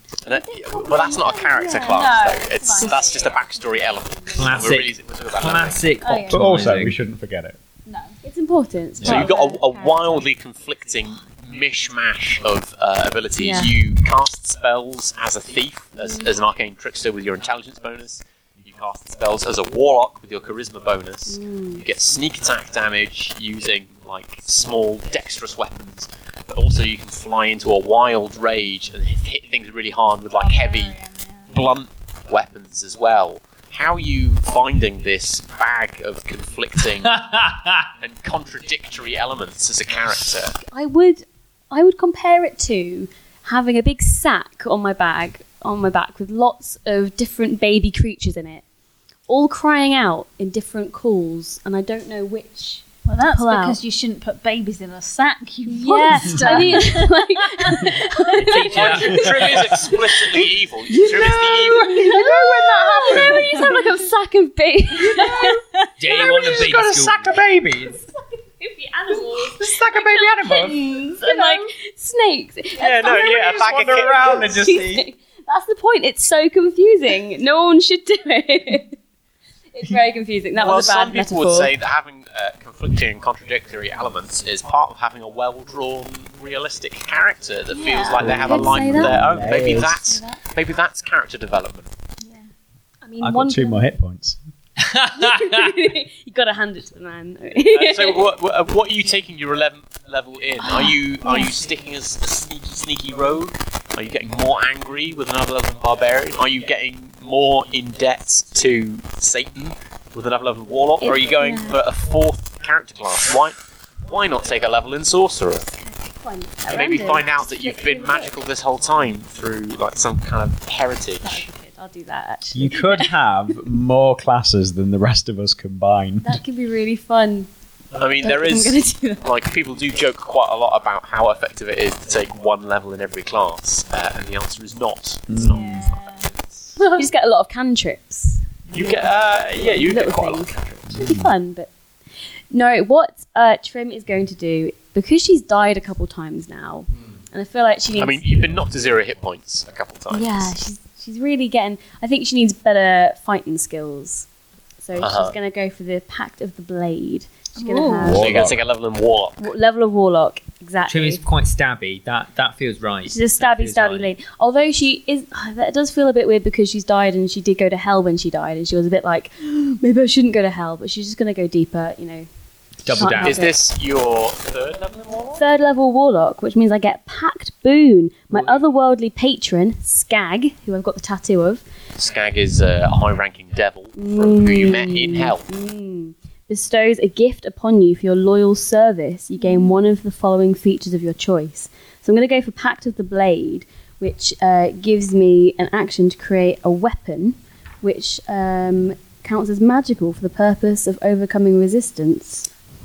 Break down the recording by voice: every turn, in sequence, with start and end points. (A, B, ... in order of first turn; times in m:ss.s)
0:00.2-0:05.8 A
0:00.3-0:02.3 B
0:01.9-0:03.6 C
0:04.4-0:07.0 D
0:06.0-0:06.5 C
0:06.3-0:07.6 E
0:07.8-0:08.2 C
0:08.2-0:09.3 B
0:09.0-0:31.0 A
0:09.1-0:10.2 C
0:13.4-0:13.8 B
0:21.3-0:21.8 B
0:30.3-0:31.7 C
0:31.5-0:37.2 A
0:37.0-0:37.9 D
0:38.0-0:40.6 A
0:40.6-0:48.6 B
0:49.3-0:52.8 B
0:53.0-0:59.0 C
0:53.3-0:53.8 B
0:55.7-0:59.7 B
0:58.4-1:01.9 A
0:59.1-1:00.5 E
1:00.9-1:05.5 B
1:01.0-1:03.5 E
1:05.0-1:05.3 E
1:05.0-1:06.0 C
1:06.0-1:07.4 D
1:06.1-1:06.8 B
1:06.2-1:08.0 E
1:07.8-1:19.0 B
1:09.1-1:11.5 E
1:12.8-1:14.3 A
1:13.2-1:15.0 E
1:19.8-1:21.7 B
1:20.6-1:31.9 A
1:27.7-1:28.5 C
1:28.2-1:29.9 E
1:28.4-1:30.0 B
1:32.2-1:32.5 C
1:33.0-1:33.8 B
1:33.2-1:34.4 E
1:34.8-1:35.1 D
1:35.1-1:38.2 B
1:37.6-1:55.6 A
1:40.6-1:40.9 C
1:51.0-1:51.8 B
1:55.7-1:58.4 B
1:56.7-2:01.5 A
2:01.2-2:03.0 B
2:02.5-2:06.4 E
2:06.2-2:07.5 B
2:07.9-2:16.5 A
2:08.2-2:09.2 B
2:15.3-2:15.6 E
2:15.4-2:16.3 C
2:16.8-2:18.4 B
2:18.7-2:20.9 A
2:19.7-2:21.7 B
2:20.9-2:21.3 E
2:22.5-2:28.4 B
2:28.0-2:30.6 A
2:30.1-2:34.3 B
2:34.8-2:38.5 B
2:35.0-2:35.4 A
2:37.6-2:38.1 C
2:38.0-2:38.6 E
2:38.1-2:39.4 A
2:39.4-2:41.2 B
2:40.9-2:44.1 D
2:43.0-2:52.3 B
2:52.8-2:53.3 D
2:52.8-2:53.6 B
2:52.9-2:55.4 A
2:55.4-3:01.6 B
2:58.3-2:58.6 A
3:02.0-3:05.5 A
3:03.9-3:22.5 B
3:09.4-3:09.8 C